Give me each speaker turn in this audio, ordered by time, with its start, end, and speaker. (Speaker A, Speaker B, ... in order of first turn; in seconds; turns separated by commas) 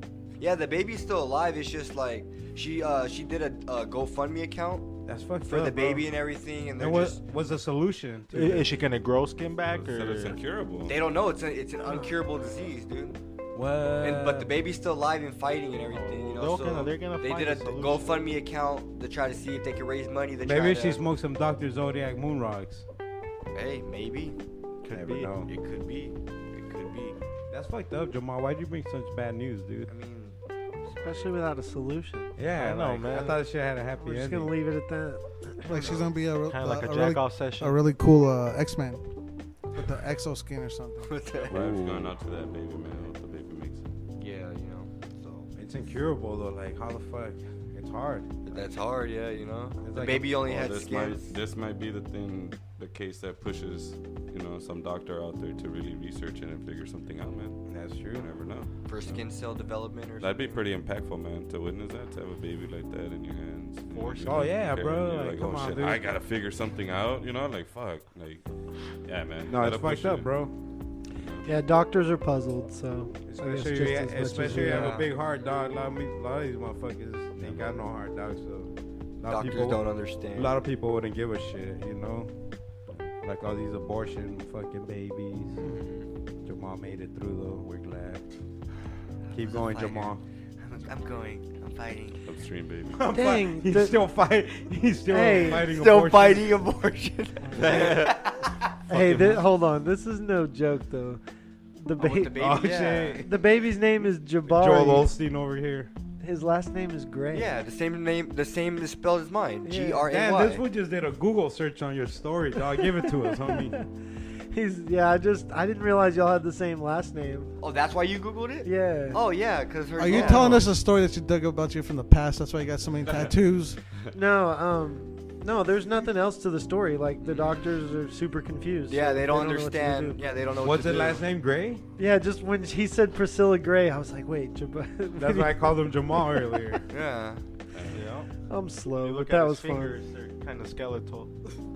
Speaker A: 0.4-7.2, Speaker B: 5.0-6.1, Speaker B: 6.8-8.7, Speaker C: 8.3-10.4, Speaker D: 9.7-11.0, Speaker A: 10.8-13.2, Speaker B: 13.6-14.5, Speaker A: 14.0-21.0, Speaker C: 15.9-18.1, Speaker B: 20.4-22.8, Speaker A: 23.5-24.4, Speaker C: 24.8-25.3, Speaker B: 24.9-25.5, Speaker A: 25.4-27.2, Speaker B: 27.5-29.9, Speaker A: 29.9-31.4, Speaker E: 31.0-32.4, Speaker B: 32.4-34.5, Speaker C: 32.6-33.4, Speaker E: 34.0-35.8, Speaker F: 35.6-39.0, Speaker A: 35.7-36.1, Speaker C: 36.5-37.8, Speaker F: 39.7-41.1, Speaker A: 41.0-41.7, Speaker B: 41.5-42.1, Speaker D: 41.5-43.9, Speaker A: 44.2-45.5, Speaker B: 45.5-48.6, Speaker A: 48.4-51.3, Speaker B: 49.8-50.4, Speaker D: 50.4-59.2, Speaker B: 57.7-58.3, Speaker A: 58.9-60.6, Speaker D: 60.2-68.4, Speaker C: 63.9-64.5, Speaker B: 64.2-66.2, Speaker D: 69.0-70.3, Speaker B: 69.5-70.5, Speaker D: 71.2-71.5, Speaker E: 71.4-75.0, Speaker B: 73.2-82.3, Speaker A: 74.7-75.0, Speaker A: 79.2-80.6, Speaker B: 83.2-85.8, Speaker A: 85.6-86.1, Speaker B: 86.4-88.2, Speaker A: 89.3-92.2, Speaker B: 89.3-90.2, Speaker D: 92.2-93.0, Speaker B: 92.9-96.6, Speaker E: 93.1-94.0, Speaker E: 95.0-95.7, Speaker A: 95.6-98.5, Speaker B: 97.6-98.0, Speaker D: 97.7-98.1, Speaker E: 98.9-101.2, Speaker B: 98.9-99.4, Speaker E: 101.8-102.7, Speaker A: 102.0-103.2, Speaker B: 102.3-103.4, Speaker E: 103.2-105.1, Speaker B: 104.5-105.9, Speaker E: 106.2-107.5, Speaker A: 107.3-110.6, Speaker E: 109.6-110.1, Speaker B: 110.1-113.8, Speaker E: 112.7-113.9, Speaker E: 114.5-117.5, Speaker A: 117.6-120.7, Speaker E: 118.6-119.2, Speaker F: 120.0-123.8, Speaker B: 120.1-120.6, Speaker E: 120.1-120.5, Speaker E: 124.1-130.3, Speaker A: 127.2-127.7, Speaker A: 128.9-131.2, Speaker B: 130.6-131.8, Speaker E: 132.0-136.7, Speaker B: 135.2-136.8, Speaker A: 136.9-137.4, Speaker D: 137.7-138.1, Speaker C: 137.9-138.2, Speaker E: 138.5-140.0, Speaker C: 139.0-141.3